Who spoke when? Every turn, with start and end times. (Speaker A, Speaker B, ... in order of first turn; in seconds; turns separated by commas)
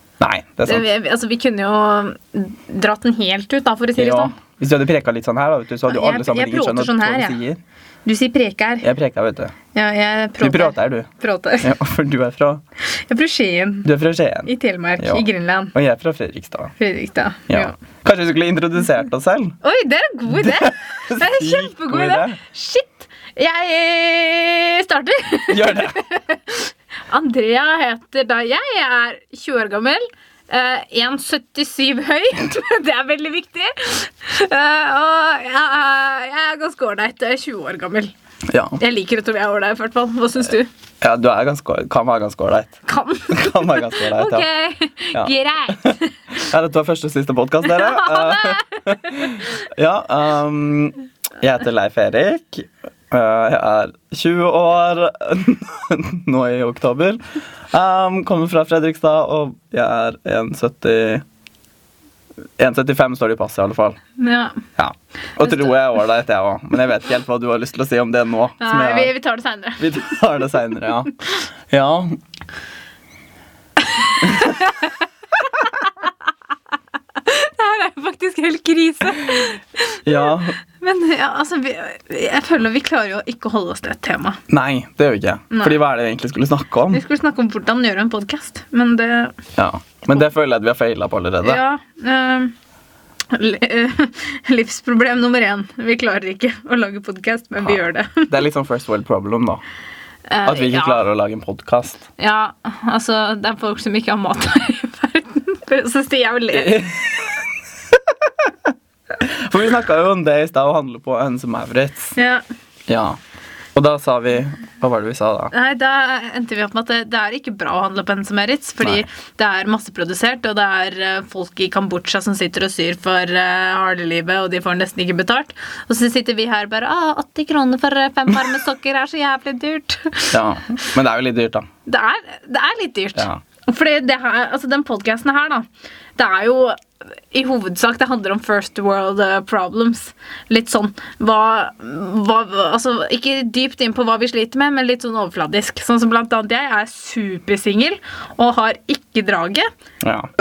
Speaker A: 0.2-0.8, Speaker B: 0.7-4.3, Speaker A: 4.0-7.6, Speaker B: 5.9-7.4, Speaker B: 8.0-8.8, Speaker A: 8.8-9.5, Speaker B: 9.7-11.7, Speaker A: 10.4-11.1, Speaker A: 11.6-12.6, Speaker B: 12.9-13.9, Speaker A: 13.8-16.7, Speaker B: 14.4-15.7, Speaker B: 16.8-17.7, Speaker A: 17.5-19.6, Speaker B: 19.6-38.1, Speaker A: 20.4-22.4, Speaker A: 25.5-26.0, Speaker A: 38.5-38.8, Speaker B: 38.8-40.7, Speaker A: 41.0-42.8, Speaker B: 42.9-46.1, Speaker A: 43.3-44.5, Speaker A: 45.8-61.2, Speaker B: 47.6-48.7, Speaker A: 62.6-64.0, Speaker B: 64.2-64.6, Speaker A: 64.8-69.1, Speaker B: 68.6-70.2, Speaker A: 69.8-72.2, Speaker B: 74.0-74.9, Speaker B: 75.6-75.8, Speaker B: 77.2-84.4, Speaker A: 80.0-80.5, Speaker A: 84.5-87.0, Speaker B: 85.5-85.8, Speaker B: 86.9-89.4, Speaker A: 89.5-91.6, Speaker B: 91.4-92.5, Speaker B: 93.3-98.3, Speaker A: 97.6-99.6, Speaker B: 100.3-101.0, Speaker A: 100.4-102.0, Speaker B: 102.2-106.8, Speaker A: 106.5-107.3, Speaker A: 109.2-112.2, Speaker B: 112.2-112.4, Speaker A: 112.9-113.2, Speaker A: 113.8-115.5, Speaker B: 115.5-130.4, Speaker A: 130.3-131.7, Speaker B: 131.8-136.8, Speaker A: 133.2-133.4, Speaker B: 137.3-149.7, Speaker A: 150.0-150.3